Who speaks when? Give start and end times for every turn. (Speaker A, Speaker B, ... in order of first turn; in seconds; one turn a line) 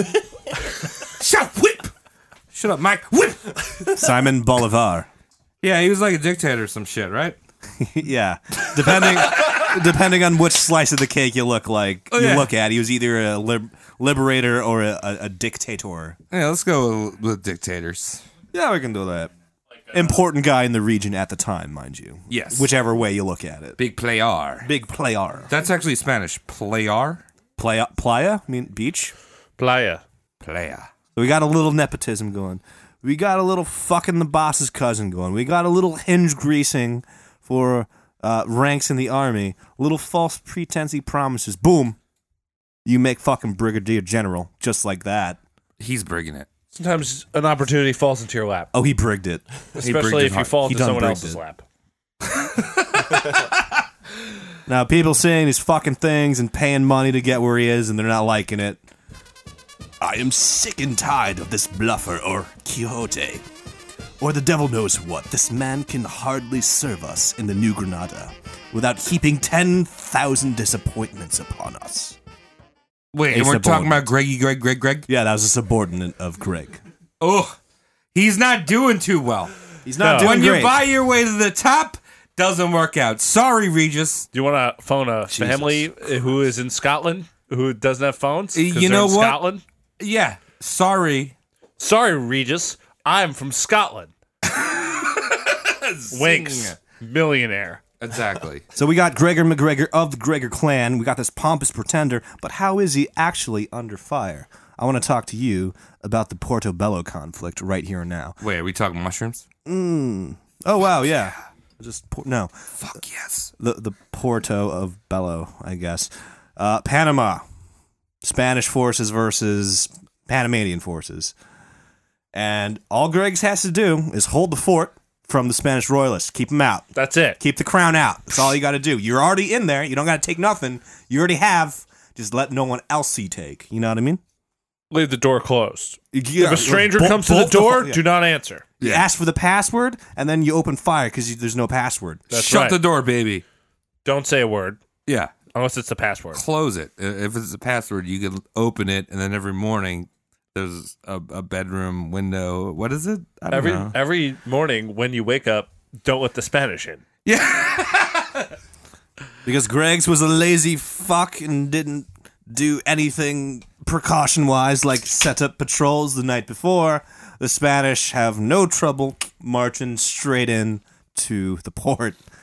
Speaker A: 0.8-1.9
Speaker A: 2.5-3.9
Speaker B: 3.9-5.1
Speaker A: 5.6-7.4
Speaker B: 7.8-16.2
Speaker A: 8.8-9.7
Speaker A: 12.1-12.5
Speaker A: 16.3-18.2
Speaker B: 18.5-19.3
Speaker B: 19.9-23.8
Speaker A: 22.3-22.7
Speaker A: 23.8-24.7
Speaker B: 24.6-25.5
Speaker A: 25.5-27.2
Speaker B: 27.6-29.1
Speaker C: 29.6-30.0
Speaker A: 30.4-30.9
Speaker B: 31.1-42.0
Speaker B: 42.8-45.4
Speaker A: 45.8-46.5
Speaker C: 46.7-48.7
Speaker B: 48.7-49.4
Speaker A: 49.8-50.6
Speaker C: 49.8-51.6
Speaker B: 50.5-51.4
Speaker A: 52.5-53.2
Speaker B: 54.7-58.8
Speaker B: 60.0-63.4
Speaker B: 64.2-72.2
Speaker A: 73.1-75.1
Speaker B: 73.3-74.1
Speaker B: 75.1-76.8
Speaker A: 77.2-77.5
Speaker A: 78.1-79.5
Speaker B: 79.8-80.8
Speaker C: 80.0-80.3
Speaker A: 80.2-84.3
Speaker C: 84.3-89.6
Speaker B: 85.3-85.9
Speaker A: 88.5-89.4
Speaker A: 90.0-91.3
Speaker C: 91.8-94.1
Speaker A: 94.6-96.8
Speaker C: 96.1-97.8
Speaker A: 98.0-98.6
Speaker B: 98.8-108.4
Speaker A: 108.4-109.4
Speaker B: 109.7-112.5
Speaker A: 112.8-113.5
Speaker B: 113.6-117.4
Speaker B: 118.2-121.3
Speaker B: 122.3-126.9
Speaker C: 126.9-127.4
Speaker B: 127.4-134.2
Speaker C: 134.9-138.7
Speaker B: 136.1-138.0
Speaker A: 138.8-139.1
Speaker B: 138.8-142.2
Speaker C: 142.3-142.8
Speaker A: 142.3-143.4
Speaker C: 144.0-144.8
Speaker A: 145.1-145.3
Speaker C: 145.5-146.4
Speaker A: 146.3-153.4
Speaker B: 153.4-153.9
Speaker C: 153.5-157.0
Speaker A: 157.2-158.4
Speaker B: 159.4-172.2